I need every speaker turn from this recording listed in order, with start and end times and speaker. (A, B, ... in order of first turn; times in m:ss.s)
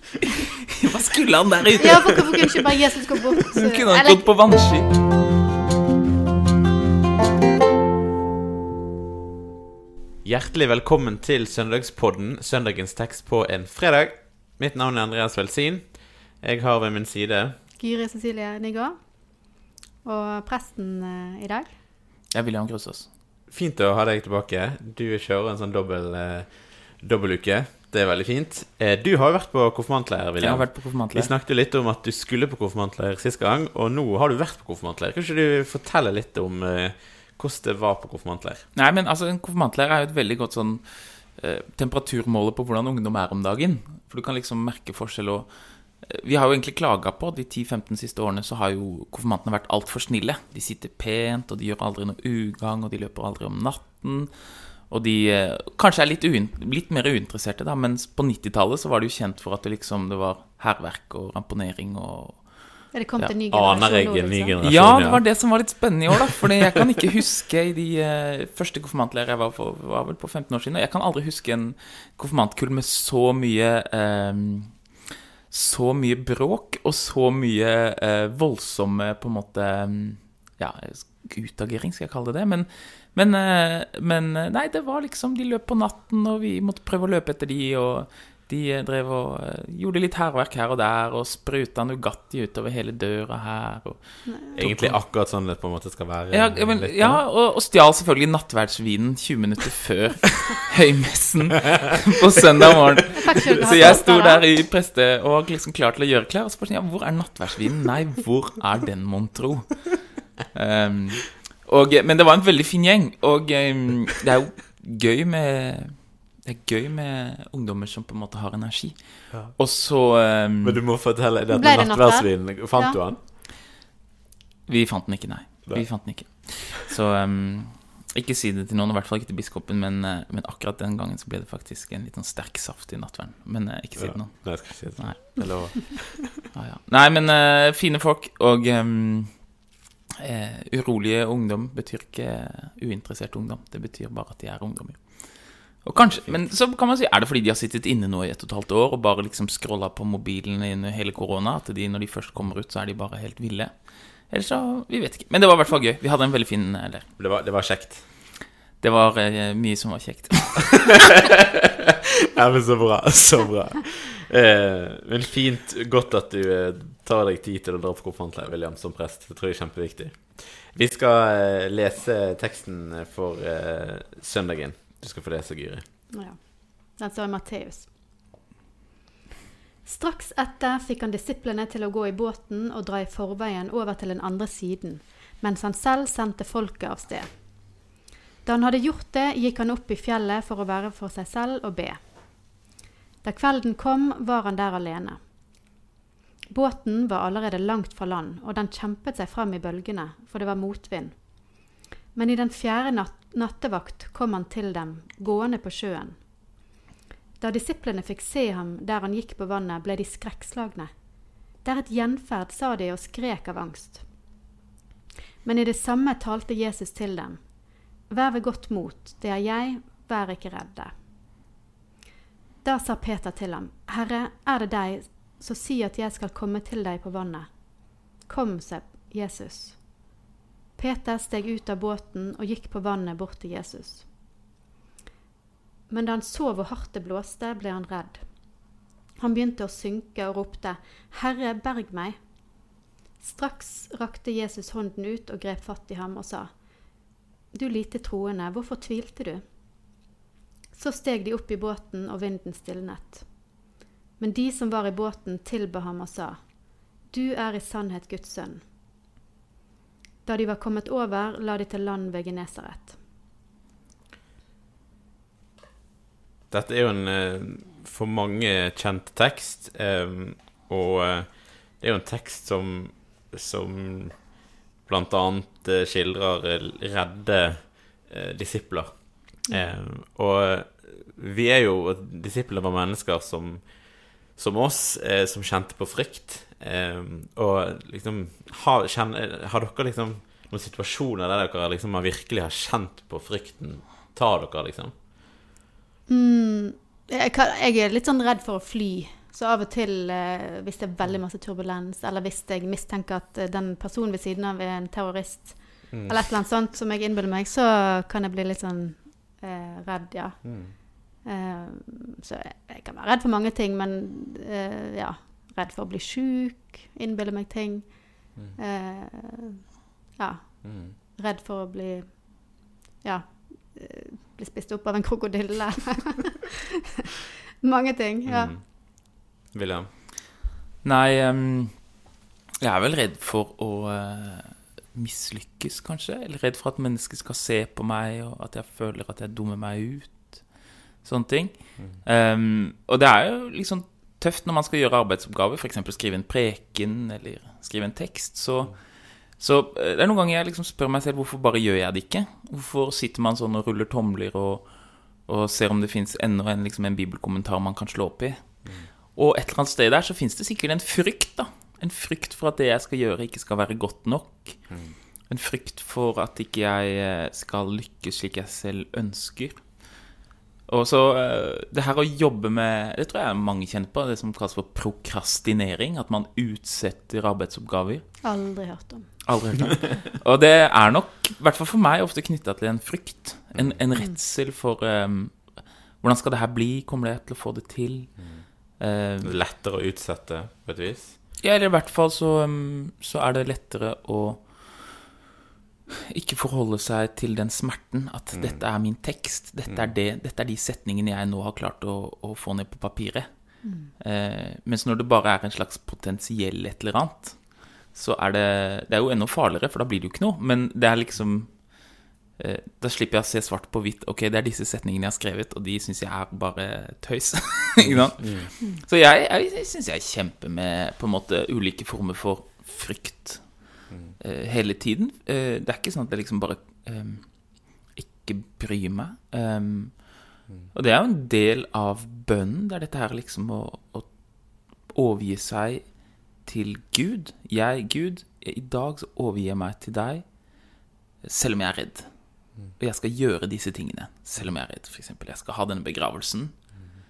0:00.8-0:02.6 A
0:01.8-0:04.4 B
0:03.6-0:04.9 A
0:10.2-0:17.6 C
0:17.8-0:21.8 B
0:22.3-0:23.1 A
0:23.5-0:38.7 C
0:30.4-0:31.3 A
0:38.8-1:02.9 A
1:02.9-1:04.6 B
1:03.2-1:05.6 C
1:04.6-1:14.9 A
1:15.5-1:35.0 A
1:34.3-1:34.6 B
1:34.6-1:37.2 C
1:36.3-2:00.8 A
1:43.2-1:44.4 B
2:00.6-2:03.2 C
2:01.5-2:03.0 B
2:04.7-2:15.8 A
2:05.7-2:06.5 C
2:14.0-2:16.4 C
2:16.5-2:19.7 A
2:20.2-2:37.1 A
2:26.0-2:26.4 C
2:37.2-2:38.1 C
2:38.8-2:40.9 A
2:42.4-2:55.8 C
2:56.1-2:57.9 B
2:59.8-3:07.8 B
3:08.4-3:12.5 B
3:13.2-3:15.3 B
3:16.5-3:26.3 B
3:27.4-3:34.1 B
3:35.4-3:40.9 B
3:42.6-3:50.1 B
3:50.8-3:54.1 B
3:55.9-3:58.6 B
3:59.2-4:02.2 B
4:03.2-4:06.8 B
4:07.5-4:09.4 B
4:10.7-4:13.6 B
4:14.2-4:18.6 B
4:20.2-4:23.0 B
4:26.5-4:55.0 C
4:56.1-5:26.5 B
5:05.9-5:06.2 C
5:10.4-5:10.8 C
5:20.6-5:20.9 C
5:27.6-5:28.5 B
5:28.3-5:29.9 C
5:30.8-6:10.0 A
6:04.7-6:05.0 C
6:10.7-6:18.3 A
6:18.2-6:19.2 B
6:19.3-6:29.4 A
6:28.2-6:28.5 C
6:29.2-6:31.2 C
6:31.4-6:35.2 A
6:36.1-7:22.1 A
6:38.3-6:38.6 C
6:39.7-6:39.9 C
6:43.6-6:43.9 B
6:57.9-6:58.5 C
7:03.9-7:04.2 C
7:22.8-7:26.8 A